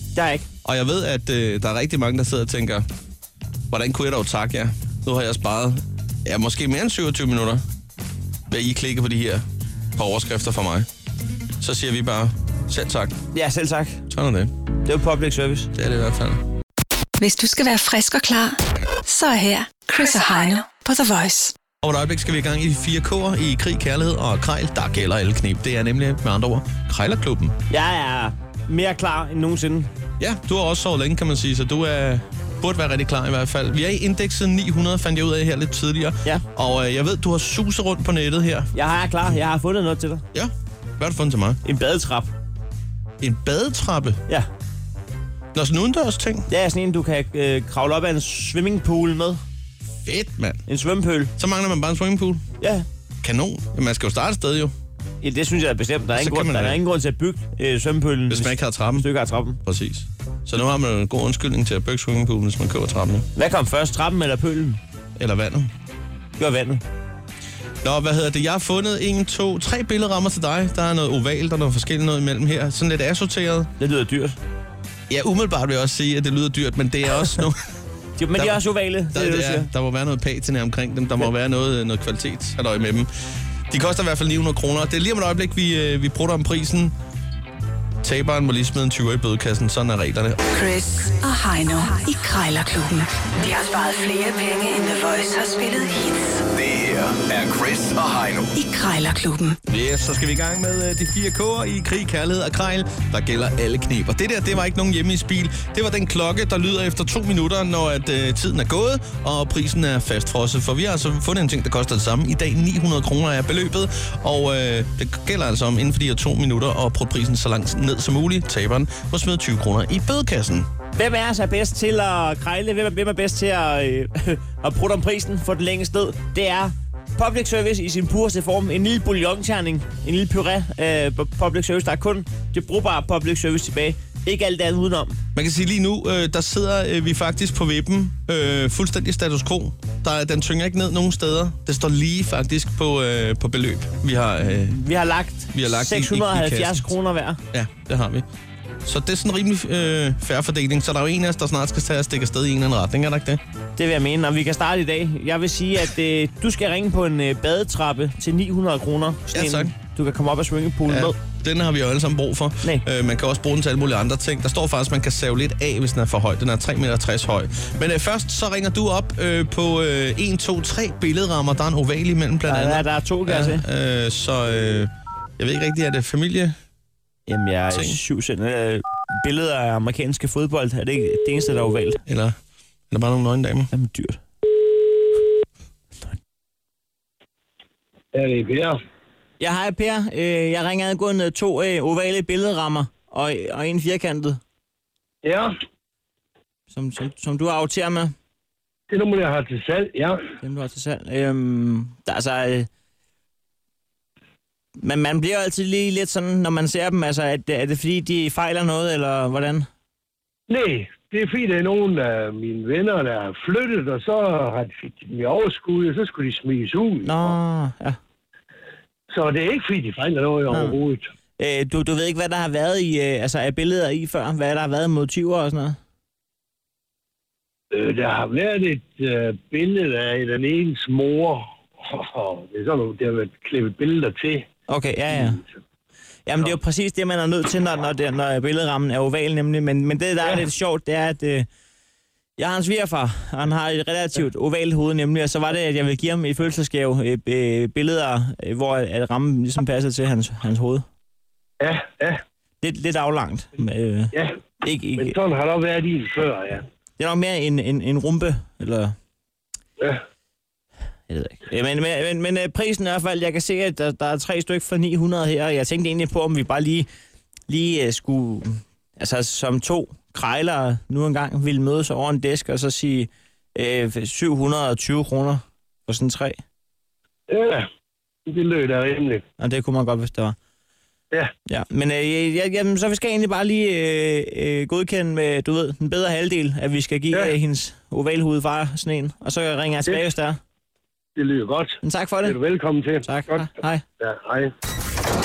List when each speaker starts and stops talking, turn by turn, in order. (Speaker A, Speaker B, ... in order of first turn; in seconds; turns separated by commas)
Speaker A: 0.1-0.5, Speaker B: 0.6-2.9, Speaker B: 3.7-7.6, Speaker B: 8.5-9.4, Speaker B: 9.9-10.9, Speaker B: 11.6-13.2, Speaker A: 13.3-14.0, Speaker B: 14.1-14.5, Speaker A: 14.8-15.7, Speaker B: 15.7-16.4, Speaker C: 17.2-21.5, Speaker B: 21.8-27.6, Speaker A: 27.7-29.9, Speaker B: 30.2-38.7, Speaker A: 38.7-40.2, Speaker B: 40.3-41.6, Speaker A: 41.6-42.3, Speaker B: 43.2-44.2, Speaker B: 45.5-46.5, Speaker A: 46.5-49.4, Speaker B: 50.0-50.6, Speaker A: 50.7-51.3, Speaker B: 51.4-52.4, Speaker A: 52.6-52.9, Speaker B: 53.2-54.7, Speaker A: 55.2-59.6, Speaker B: 56.1-56.8, Speaker B: 58.3-59.1, Speaker B: 59.6-63.2, Speaker A: 63.4-64.8, Speaker B: 65.2-65.7, Speaker A: 66.4-66.8, Speaker B: 67.8-73.7, Speaker A: 73.8-74.4, Speaker B: 75.1-77.6, Speaker A: 78.2-79.7, Speaker B: 78.3-83.1, Speaker B: 83.7-86.9, Speaker B: 88.0-90.4, Speaker C: 90.5-96.4, Speaker D: 96.5-98.5, Speaker C: 98.5-99.6, Speaker B: 99.7-120.7, Speaker A: 121.0-135.2, Speaker B: 135.3-144.8, Speaker A: 144.7-147.4, Speaker B: 145.5-146.9, Speaker B: 147.5-148.2, Speaker B: 148.8-153.4, Speaker A: 153.8-161.2, Speaker B: 159.3-159.7, Speaker B: 160.9-176.6, Speaker A: 172.5-173.6, Speaker A: 177.3-182.0, Speaker B: 177.7-178.0, Speaker B: 182.1-182.4, Speaker B: 182.9-183.7, Speaker A: 183.7-184.2, Speaker E: 188.1-188.8, Speaker A: 189.4-194.4, Speaker E: 195.2-195.5, Speaker A: 196.7-198.1, Speaker E: 198.9-200.2, Speaker A: 200.4-202.7, Speaker A: 204.8-209.7, Speaker E: 210.5-217.4, Speaker A: 217.0-218.0, Speaker E: 219.1-221.1, Speaker A: 220.5-220.8, Speaker A: 221.4-225.8, Speaker E: 227.7-234.5, Speaker A: 234.7-235.4, Speaker E: 235.1-235.5, Speaker A: 236.2-241.5, Speaker A: 242.4-250.8, Speaker E: 251.6-252.2, Speaker A: 252.6-255.1, Speaker E: 255.0-256.6, Speaker A: 257.0-258.9, Speaker A: 261.1-266.9, Speaker A: 267.5-276.4, Speaker E: 277.3-277.7, Speaker E: 278.3-279.2, Speaker A: 279.4-280.4, Speaker A: 281.5-290.4, Speaker E: 291.1-293.5, Speaker A: 291.8-292.4, Speaker A: 293.0-293.8, Speaker E: 294.0-294.5